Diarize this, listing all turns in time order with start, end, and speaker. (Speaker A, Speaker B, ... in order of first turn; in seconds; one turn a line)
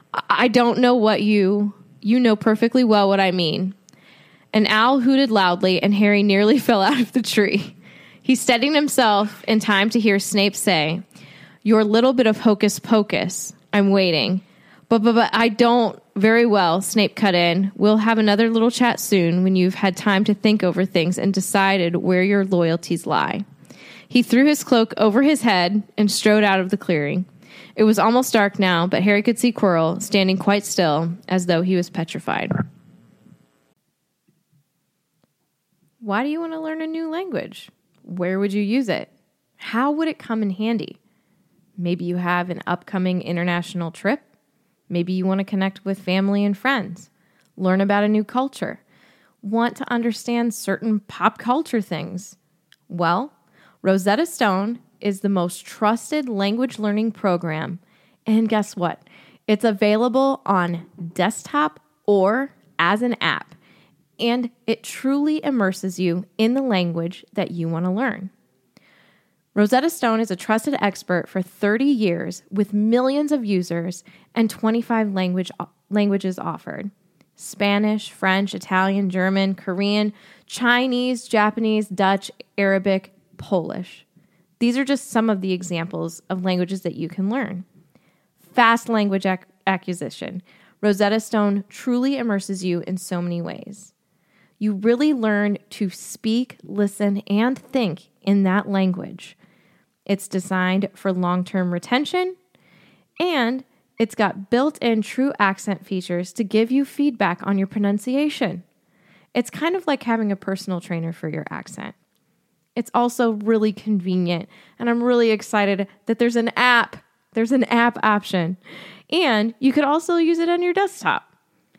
Speaker A: 0.1-3.8
Speaker A: 4.5-11.0
Speaker A: 11.6-23.4
Speaker A: 24.1-32.6
Speaker A: 36.0-41.0
Speaker A: 41.8-44.3
Speaker A: 44.9-48.8
Speaker A: 49.4-52.4
Speaker A: 52.9-63.5
Speaker A: 64.2-68.3
Speaker A: 69.5-84.0
Speaker A: 84.6-87.7
Speaker A: 88.5-93.9
Speaker A: 94.6-99.3
Speaker A: 100.1-102.4
Speaker A: 103.2-108.6
Speaker A: 109.3-112.0
Speaker A: 112.8-118.6
Speaker A: 119.1-121.3